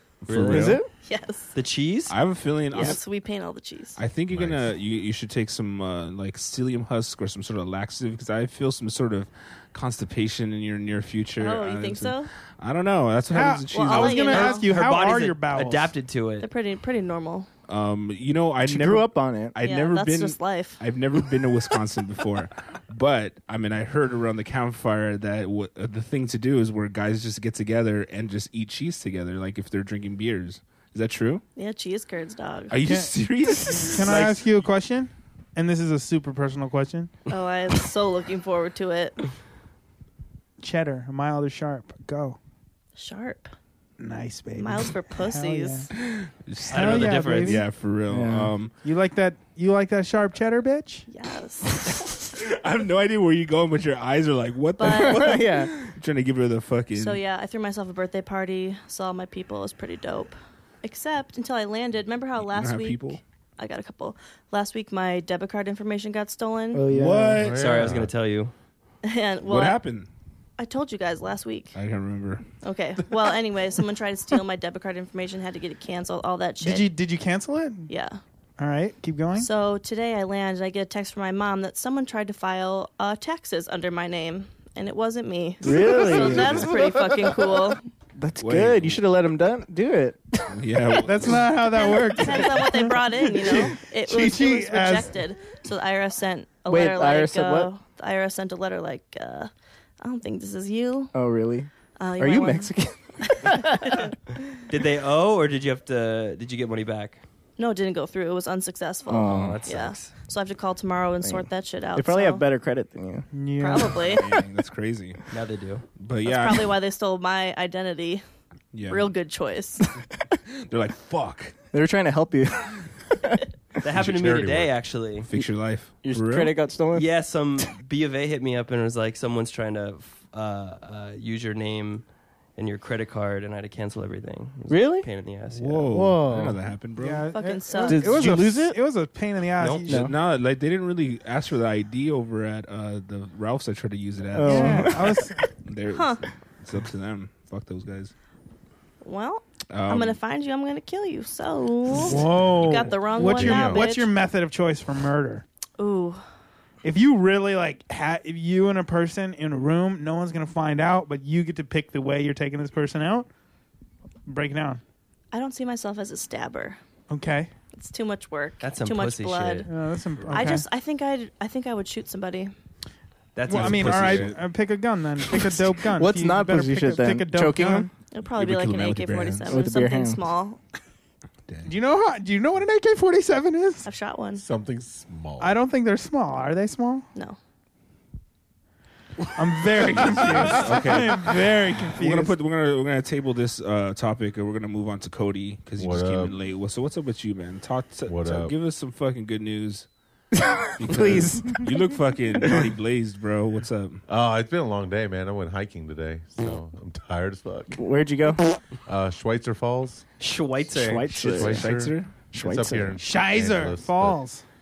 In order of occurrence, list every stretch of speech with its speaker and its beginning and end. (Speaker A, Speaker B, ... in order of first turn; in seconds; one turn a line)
Speaker A: 0.2-0.8
Speaker B: 0.3-0.8
Speaker C: 0.3-0.9
Speaker D: 1.0-1.5
Speaker B: 1.5-2.1
Speaker A: 2.1-3.0
Speaker D: 2.7-4.0
Speaker A: 4.0-14.6
Speaker E: 4.3-4.7
Speaker D: 11.4-12.3
Speaker F: 13.3-15.9
Speaker D: 13.7-14.7
Speaker B: 14.6-16.5
Speaker D: 16.4-17.5
Speaker A: 17.7-31.4
Speaker C: 18.6-19.6
Speaker D: 19.6-20.8
Speaker D: 31.6-32.8
Speaker A: 32.7-34.5
Speaker F: 33.8-37.1
Speaker D: 37.3-39.2
Speaker F: 40.6-42.4
Speaker D: 43.0-43.5
Speaker F: 44.0-45.9
Speaker D: 44.6-45.9
Speaker A: 46.0-48.7
Speaker B: 46.7-47.6
Speaker F: 46.7-47.7
Speaker C: 48.1-48.5
Speaker F: 48.8-51.0
Speaker D: 51.1-52.0
Speaker A: 51.9-57.2
Speaker D: 54.8-55.3
Speaker C: 54.9-55.7
Speaker D: 57.0-66.8
Speaker A: 62.5-63.2
Speaker C: 66.7-67.5
Speaker A: 66.9-68.0
Speaker E: 67.4-68.1
Speaker B: 67.6-68.5
Speaker D: 69.0-69.8
Speaker A: 69.5-70.1
Speaker D: 70.6-71.8
Speaker A: 71.8-72.4
Speaker D: 72.6-76.9
Speaker F: 76.6-77.9
Speaker D: 77.9-78.2
Speaker F: 78.6-79.5
Speaker D: 79.4-87.8
Speaker C: 85.6-86.7
Speaker A: 86.3-86.5
Speaker C: 88.2-90.6
Speaker A: 88.4-89.0
Speaker A: 90.5-91.5
Speaker F: 91.0-95.1
Speaker D: 91.7-99.5
Speaker C: 96.7-97.7
Speaker D: 100.0-101.1
Speaker C: 101.1-104.0
Speaker D: 102.0-102.7
Speaker D: 103.2-104.1
Speaker B: 104.7-107.2
Speaker D: 107.6-112.5
Speaker C: 109.1-109.6
Speaker B: 109.3-110.1
Speaker C: 111.2-113.3
Speaker F: 113.3-114.1
Speaker D: 113.6-114.2
Speaker A: 113.9-115.2
Speaker B: 115.3-115.8
Speaker A: 116.0-116.8
Speaker D: 116.2-118.2
Speaker A: 118.7-119.1
Speaker D: 118.9-119.9
Speaker A: 120.5-121.5
Speaker C: 121.7-123.4
Speaker B: 123.8-125.3
Speaker E: 123.9-124.7
Speaker A: 125.3-126.5
Speaker C: 126.0-127.1
Speaker B: 126.9-132.1
Speaker B: 132.6-135.9
Speaker C: 134.7-135.1
Speaker A: 135.5-137.3
Speaker C: 135.9-136.6
Speaker F: 137.0-140.1
Speaker D: 137.3-138.2
Speaker C: 137.9-138.8
Speaker B: 139.6-139.8
Speaker C: 139.9-140.1
Speaker A: 139.9-148.1
Speaker C: 144.3-145.3
Speaker F: 144.4-145.4
Speaker D: 145.9-146.2
Speaker D: 149.0-154.1
Speaker A: 149.7-150.2
Speaker F: 152.1-155.4
Speaker E: 152.7-153.9
Speaker D: 155.8-156.2
Speaker F: 156.8-163.3
Speaker F: 164.3-164.8
Speaker D: 165.3-166.8
Speaker F: 167.1-167.5
Speaker D: 167.8-169.7
Speaker B: 168.6-169.7
Speaker F: 169.7-170.7
Speaker D: 170.3-172.5
Speaker B: 173.3-174.4
Speaker F: 173.5-177.9
Speaker A: 173.5-174.4
Speaker C: 175.9-177.9
Speaker D: 178.1-180.6
Speaker A: 178.3-179.6
Speaker C: 179.5-180.2
Speaker A: 181.5-181.8
Speaker F: 181.7-183.8
Speaker D: 183.8-184.4
Speaker E: 184.4-185.6
Speaker F: 185.4-187.1
Speaker F: 189.4-192.3
Speaker A: 189.9-199.9
Speaker E: 195.8-196.3
Speaker E: 198.1-198.5
Speaker C: 200.3-201.8
Speaker A: 200.8-204.0
Speaker C: 202.4-202.7
Speaker E: 204.1-207.8
Speaker C: 207.8-208.6
Speaker E: 208.9-210.1
Speaker B: 210.2-211.1
Speaker C: 210.8-211.7
Speaker A: 211.1-212.1
Speaker E: 211.2-214.2
Speaker C: 212.3-213.0
Speaker F: 213.0-214.4